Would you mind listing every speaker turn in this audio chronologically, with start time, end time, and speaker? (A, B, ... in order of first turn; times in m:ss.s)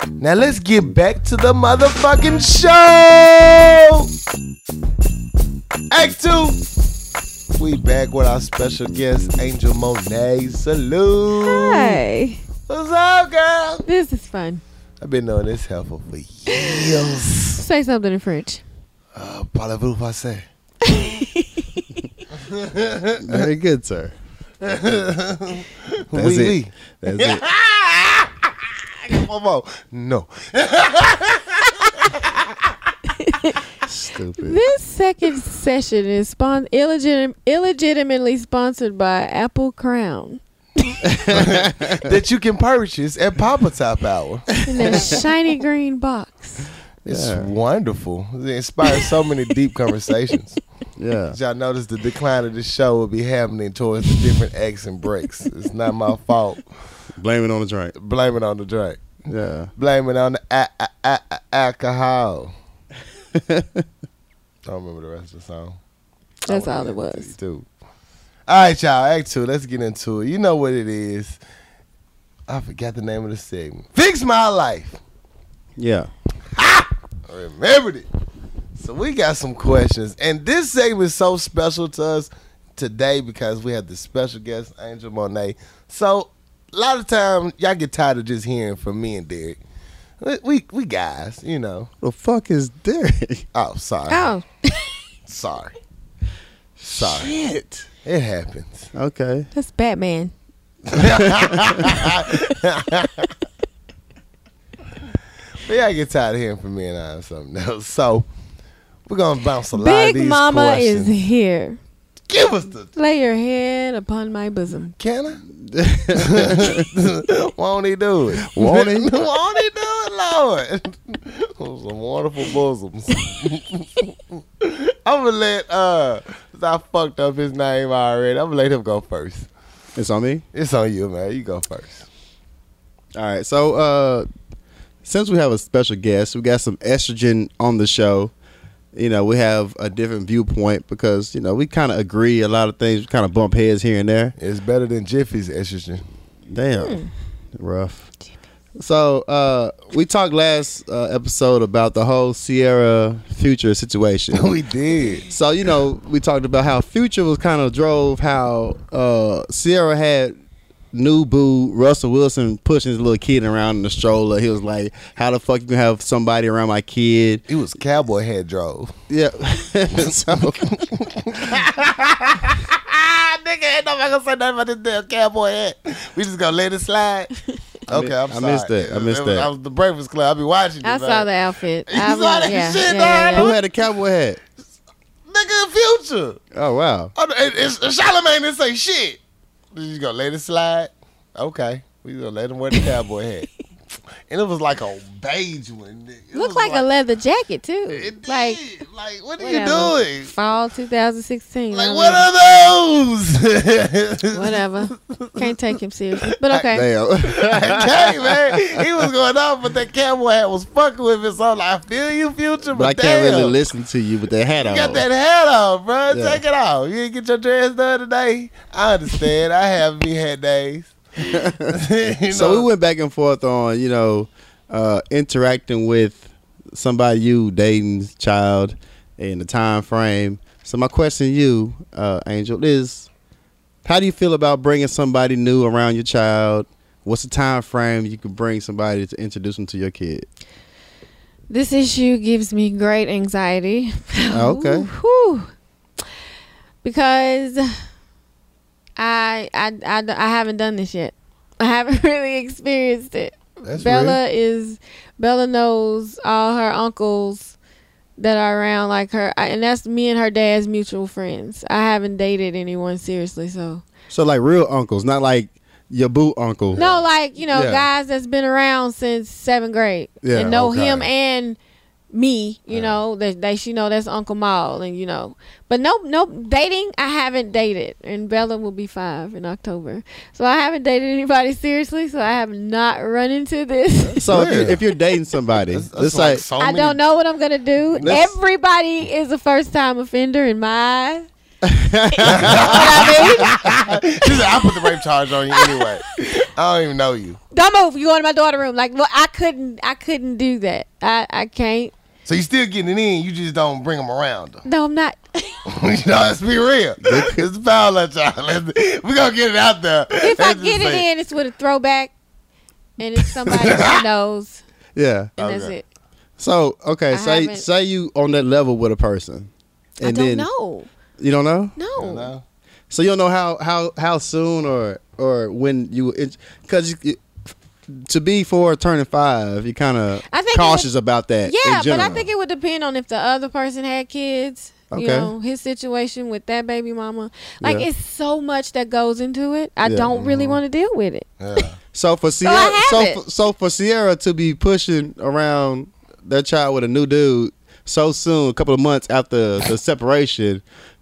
0:00.2-0:04.1 A
0:05.9-0:06.6 A
0:07.6-0:12.0 A
0:11.4-0:12.4 B
0:12.7-0:13.8 A
0:13.9-0:14.6 B
0:15.0-0:17.6 A
0:16.5-0:18.6 B
0:19.2-0:21.0 A
0:20.8-0:21.9 B
0:22.3-0:23.5 A
0:23.2-0:24.1 C
0:24.6-0:33.0 A
0:26.1-0:27.4 C
0:33.2-0:33.6 B
0:33.8-0:34.6 C
0:34.4-0:41.0 B
0:41.0-0:42.1 C
0:41.3-0:45.2 A
0:44.6-0:45.1 C
0:44.6-0:46.7 B
0:47.0-0:47.5 C
0:47.1-0:50.6 A
0:51.0-0:51.4 C
0:51.3-0:56.6 A
0:57.2-0:57.9 C
0:58.0-0:59.1 A
0:59.3-0:59.7 C
0:59.8-1:02.5 A
1:03.3-1:03.8 C
1:04.7-1:05.8 A
1:06.5-1:07.3 B
1:06.5-1:07.7 A
1:08.5-1:11.4 A
1:12.5-1:15.0 A
1:15.8-1:16.1 C
1:16.5-1:18.1 A
1:18.8-1:29.6 A
1:30.2-1:31.9 A
1:32.0-1:33.5 C
1:33.5-1:34.3 A
1:34.1-1:34.9 B
1:35.3-1:35.8 A
1:36.8-1:37.9 C
1:36.9-1:37.3 A
1:38.0-1:38.9 A
1:38.9-1:39.5 C
1:39.5-1:40.3 B
1:40.9-1:43.3 A
1:41.0-1:42.1 C
1:45.6-1:48.3 A
1:49.1-1:51.1 A
1:49.7-1:51.8 B
1:52.3-1:52.9 A
1:53.0-1:55.0 B
1:55.0-1:55.4 A
1:55.5-1:56.9 C
1:56.1-2:09.5 A
1:58.4-1:59.1 C
2:10.0-2:10.4 C
2:10.5-2:12.1 A
2:13.2-2:14.3 C
2:15.0-2:18.3 C
2:18.9-2:24.4 C
2:24.4-2:26.0 A
2:26.5-2:28.1 C
2:26.8-2:27.1 B
2:28.8-2:34.5 C
2:34.3-2:35.3 A
2:35.3-2:40.4 C
2:40.9-2:47.4 C
2:47.5-2:48.9 A
2:49.1-2:50.8 C
2:50.0-2:57.3 A
2:57.9-3:01.3 A
2:57.9-2:59.5 C
3:00.8-3:03.6 B
3:01.9-3:03.6 A
3:03.3-3:04.4 C
3:05.3-3:06.4 A
3:06.5-3:07.1 C
3:07.2-3:09.2 A
3:09.7-3:13.5 A
3:14.3-3:16.8 A
3:16.3-3:18.7 B
3:17.9-3:20.3 A
3:19.4-3:22.3 B
3:21.7-3:25.6 A
3:24.3-3:26.8 B
3:26.4-3:26.7 A
3:26.7-3:28.7 C
3:27.3-3:33.6 A
3:32.7-3:35.0 C
3:34.6-3:42.7 A
3:36.1-3:36.4 C
3:41.2-3:41.7 C
3:42.3-3:53.1 C
3:53.8-4:00.3 C
4:01.5-4:05.5 B
4:04.3-4:04.9 C
4:06.8-4:07.7 B
4:09.0-4:17.6 B
4:13.6-4:14.2 A
4:18.2-4:23.8 B
4:24.1-4:26.8 C
4:26.7-4:27.1 A
4:26.8-4:31.6 B
4:27.5-4:27.9 C
4:30.2-4:30.6 C
4:30.4-4:31.1 A
4:32.1-4:44.8 B
4:32.7-4:33.0 A
4:44.0-4:44.8 A
4:44.2-4:46.4 C
4:45.6-4:47.0 A
4:46.6-4:51.3 B
4:47.9-4:48.3 A
4:48.0-4:48.3 C
4:51.6-4:53.8 C
4:52.1-4:53.7 B
4:52.3-4:57.4 A
4:54.2-4:56.0 B
4:57.5-5:01.9 B
5:02.3-5:04.6 A
5:04.6-5:05.6 B
5:05.7-5:11.0 A
5:07.0-5:07.4 C
5:10.2-5:12.1 B
5:13.0-5:14.6 B
5:13.5-5:14.0 A
5:15.0-5:15.3 C
5:15.4-5:15.8 B
5:15.4-5:15.8 A
5:16.4-5:19.5 C
5:17.1-5:17.7 B
5:20.0-5:20.5 C
5:20.0-5:20.9 B
5:21.2-5:21.7 C
5:21.8-5:22.3 B
5:22.0-5:22.4 A
5:22.9-5:27.2 C
5:28.0-5:32.2 C
5:30.3-5:30.9 B
5:31.4-5:41.7 B
5:32.0-5:32.3 A
5:34.9-5:35.3 C
5:37.6-5:37.9 C
5:39.8-5:40.1 C
5:40.1-5:40.6 A
5:41.4-5:41.8 A
5:41.9-5:50.6 C
5:42.4-5:43.2 B